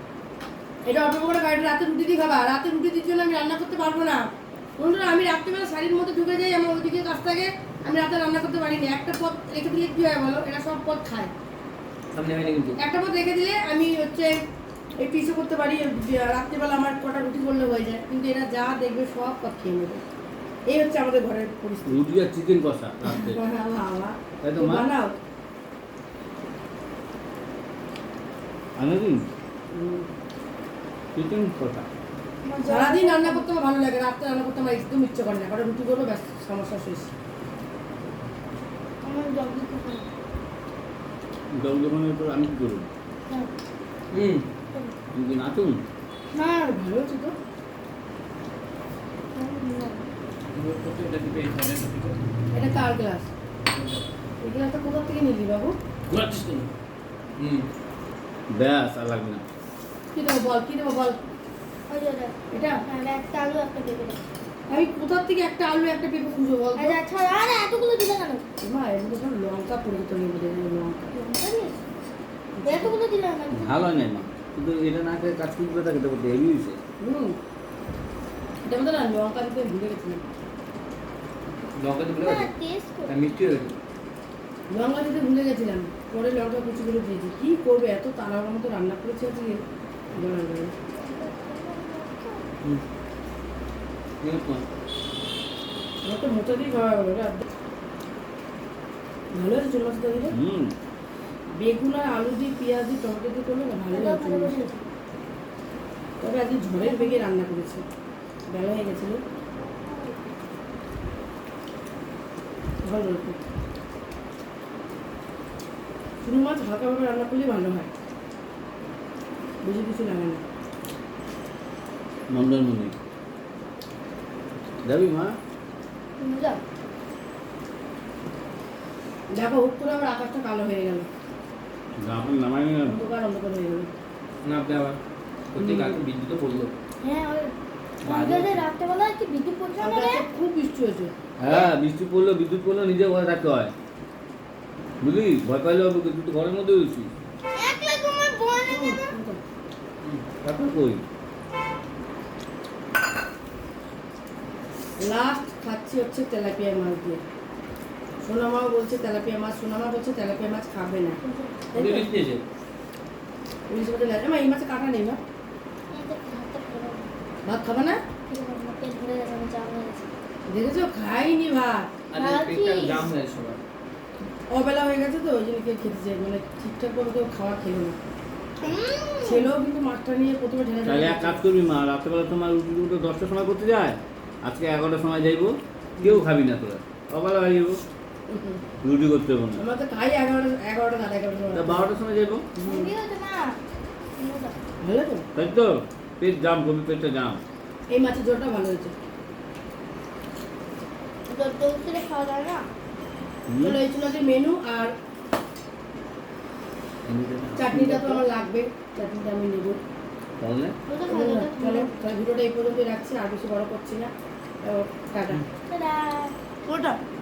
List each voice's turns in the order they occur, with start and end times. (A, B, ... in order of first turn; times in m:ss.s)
0:00.8-0:04.2 A
0:04.8-0:11.3 A
0:12.1-0:12.8 B
0:12.8-0:14.3 A
0:15.0-0:20.0 A
0:20.7-0:22.0 A
0:21.8-0:23.4 C
0:23.1-0:25.1 A
0:24.4-0:24.9 C
0:28.8-0:29.3 C
0:29.7-0:30.1 A
0:31.1-0:31.9 C
0:32.4-0:33.5 D
0:32.6-0:37.1 A
0:39.0-0:40.1 D
0:41.5-0:42.9 C
0:44.1-0:44.4 B
0:45.1-0:45.8 C
0:46.4-0:46.7 D
0:46.6-0:47.3 A
0:49.3-0:50.1 D
0:50.5-0:52.2 B
0:52.5-0:53.3 A
0:53.7-0:54.0 B
0:54.4-0:55.7 A
0:56.1-0:56.7 B
0:57.4-0:57.7 B
0:58.5-0:59.4 C
1:00.1-1:01.2 A
1:01.9-1:04.2 D
1:02.5-1:02.8 A
1:04.7-1:07.0 A
1:06.8-1:08.4 D
1:08.6-1:11.1 A
1:11.1-1:11.8 D
1:12.6-1:12.9 A
1:12.6-1:13.9 D
1:13.5-1:16.8 C
1:17.0-1:17.4 A
1:18.6-1:20.2 A
1:21.8-1:22.5 B
1:22.2-1:23.1 D
1:23.1-1:23.7 B
1:24.7-1:29.6 A
1:30.1-1:30.7 A
1:31.0-1:32.4 D
1:34.2-1:34.6 B
1:36.0-1:37.4 A
1:39.3-1:40.3 A
1:40.3-1:40.7 C
1:41.6-1:44.5 A
1:43.9-1:44.8 D
1:46.2-1:47.8 A
1:46.8-1:47.3 D
1:48.5-1:49.2 A
1:49.5-1:50.3 D
1:52.8-1:53.4 A
1:56.2-1:57.9 A
1:59.6-2:00.4 A
2:02.3-2:02.9 C
2:04.8-2:05.4 C
2:06.2-2:06.6 D
2:09.3-2:11.1 A
2:12.0-2:13.0 C
2:12.8-2:13.9 A
2:14.4-2:15.0 B
2:15.5-2:16.7 B
2:15.6-2:16.0 A
2:17.0-2:20.2 D
2:18.0-2:18.6 B
2:19.8-2:21.1 A
2:21.4-2:23.7 C
2:25.0-2:27.1 C
2:27.5-2:29.0 D
2:28.7-2:29.4 A
2:30.4-2:31.0 C
2:35.0-2:37.2 A
2:38.2-2:41.2 A
2:41.2-2:41.8 D
2:41.7-2:42.4 B
2:41.8-2:42.1 A
2:43.7-2:45.2 A
2:45.9-2:47.1 D
2:47.4-2:48.0 A
2:48.3-2:50.1 D
2:50.5-2:51.9 A
2:52.1-2:53.6 B
2:52.1-2:53.0 D
2:54.5-2:58.0 A
2:58.6-2:59.5 D
2:59.2-3:01.4 A
3:00.8-3:07.8 C
3:06.0-3:06.2 A
3:08.3-3:08.6 A
3:08.8-3:09.6 C
3:09.6-3:11.9 A
3:11.5-3:12.4 C
3:12.6-3:12.9 A
3:12.6-3:13.6 D
3:14.2-3:14.6 D
3:14.8-3:15.2 A
3:15.3-3:17.4 C
3:17.9-3:18.9 A
3:21.3-3:22.6 D
3:23.5-3:23.8 C
3:23.6-3:24.9 A
3:27.0-3:28.2 C
3:27.6-3:29.8 A
3:30.4-3:30.7 C
3:30.9-3:31.9 D
3:31.1-3:34.1 A
3:34.6-3:35.4 A
3:35.7-3:37.0 D